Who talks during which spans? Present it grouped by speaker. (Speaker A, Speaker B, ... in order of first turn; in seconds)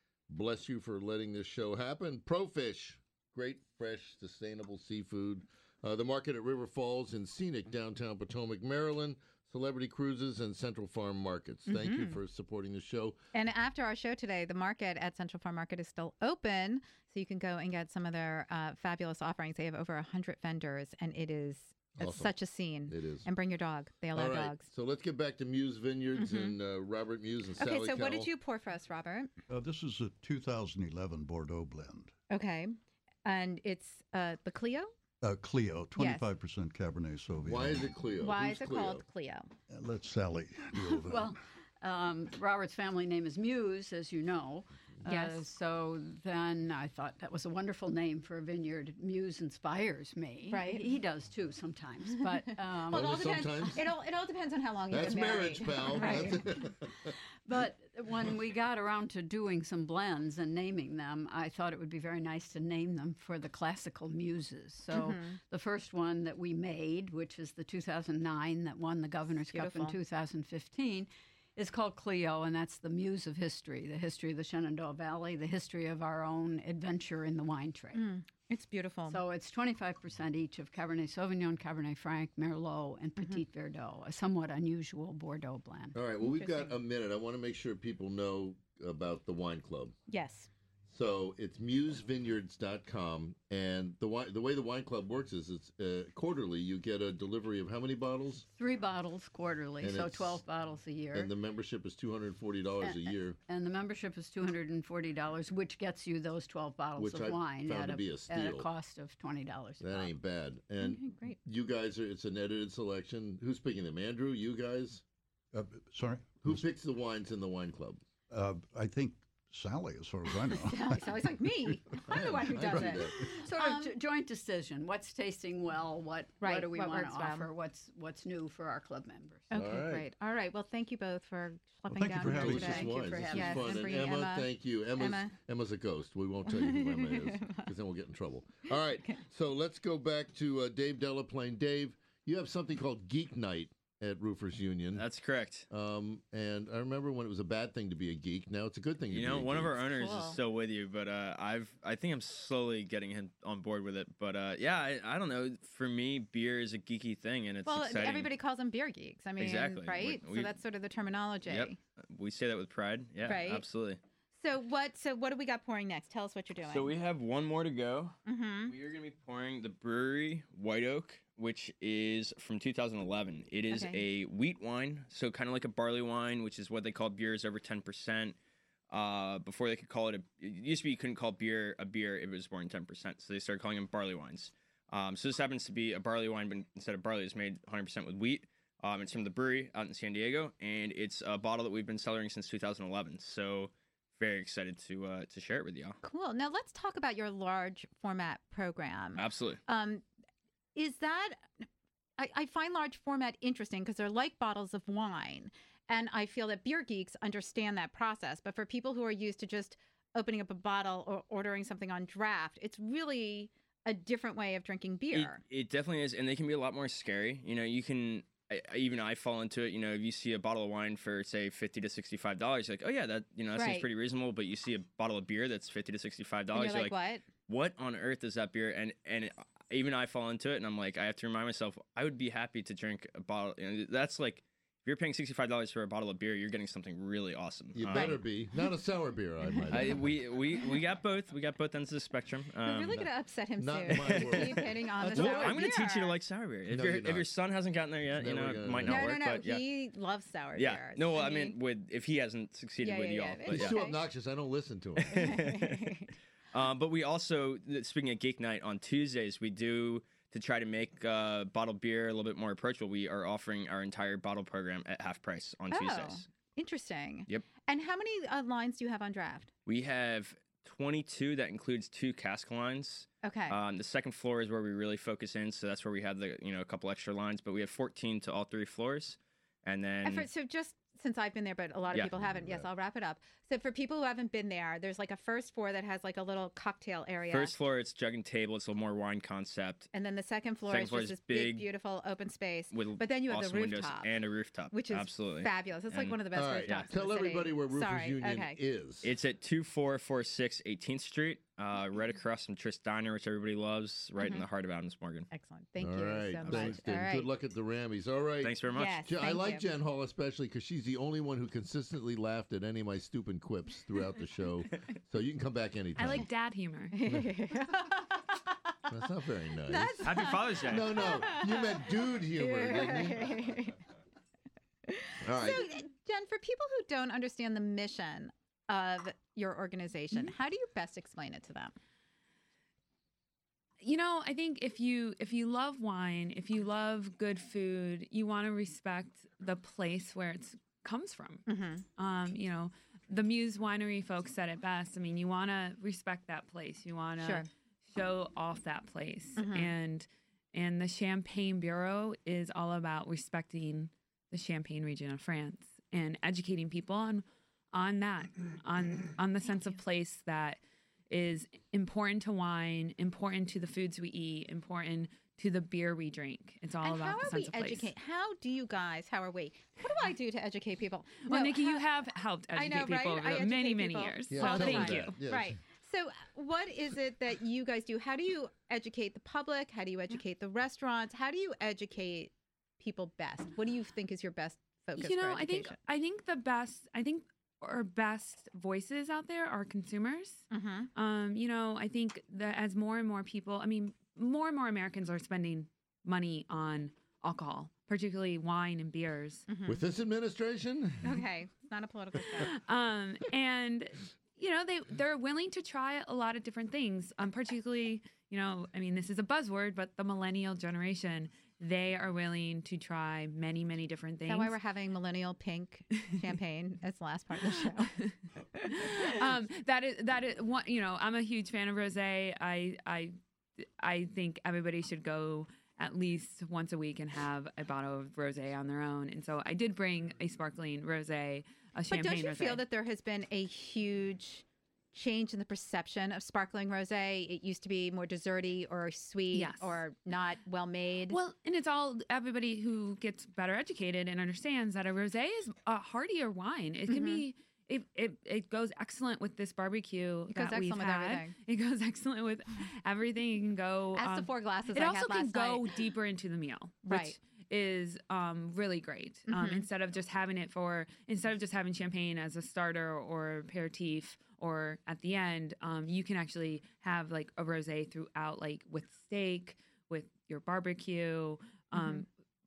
Speaker A: 0.3-13.2, 22.0-22.3, 22.9-23.3, 24.1-28.3, 37.5-39.0, 52.9-53.9, 54.9-57.1, 85.9-90.0, 90.9-98.5, 99.8-100.4, 101.1-103.4, 107.0-108.7, 109.8-115.0, 116.4-118.0, 122.1-123.2, 129.5-130.1, 132.2-145.1, 145.7-149.8, 237.8-240.1, 243.6-245.7, 246.7-247.3, 248.2-249.1, 253.5-255.4, 296.3-299.1, 305.8-316.3, 318.9-323.4, 325.2-325.7, 374.3-375.6, 399.7-401.2
Speaker B: 11.7-12.2, 13.3-24.6, 26.2-26.6, 27.6-29.3, 32.3-34.9, 36.0-36.2, 38.2-39.5, 50.5-50.9, 52.9-56.5, 64.9-65.4, 69.5-70.0, 77.9-79.2, 86.2-86.7, 90.1-90.5, 110.8-111.4, 120.6-123.9, 126.4-127.5, 129.5-135.3, 136.6-137.7, 149.8-150.4, 157.7-161.8, 163.2-163.6, 164.3-166.9, 168.3-168.7, 173.7-174.0, 196.0-200.0, 200.8-201.6, 202.2-215.4, 223.6-223.9, 226.5-227.2, 237.9-238.2, 242.6-246.2, 248.8-251.6, 252.8-254.0, 255.1-256.1, 265.7-269.5, 273.2-273.6, 280.0-287.5, 289.9-294.1, 294.7-298.6, 304.2-304.5, 305.3-307.3, 308.7-309.6, 316.9-318.5, 319.6-323.8, 324.9-331.8, 341.5-341.9, 347.2-347.5, 349.4-349.7, 366.8-371.9, 372.5-385.8, 390.5-390.9, 399.5-399.8, 401.0-402.5, 414.3-418.0, 418.7-419.1, 431.9-441.2, 446.9-447.2, 450.3-451.3, 454.0-455.7, 456.9-457.2, 459.3-459.7, 471.7-472.0
Speaker C: 29.5-32.1, 35.2-38.0, 39.7-41.3, 115.5-116.7, 118.3-121.3, 131.9-132.8
Speaker D: 41.0-53.7, 56.0-56.3, 57.5-78.1, 79.1-86.0, 98.5-101.3, 102.8-110.1, 123.2-129.5, 132.4-134.0
Speaker E: 45.1-45.5, 316.0-317.0, 333.8-341.4, 342.0-360.6, 361.1-367.9, 371.2-375.2, 385.0-399.5, 402.4-414.6, 418.6-432.6, 439.3-439.8, 441.1-472.1
Speaker F: 144.9-145.7, 149.1-158.3, 159.4-160.5, 161.5-164.0, 166.7-178.3, 178.9-196.0, 199.2-199.6, 215.1-226.9, 227.5-238.2, 239.7-243.1, 243.9-249.7, 250.6-253.8, 255.0-255.9, 256.5-266.3, 269.7-280.3, 287.3-289.9, 290.7-291.7, 292.7-296.9, 299.0-305.3, 306.5-306.8, 308.4-309.0, 320.0-321.1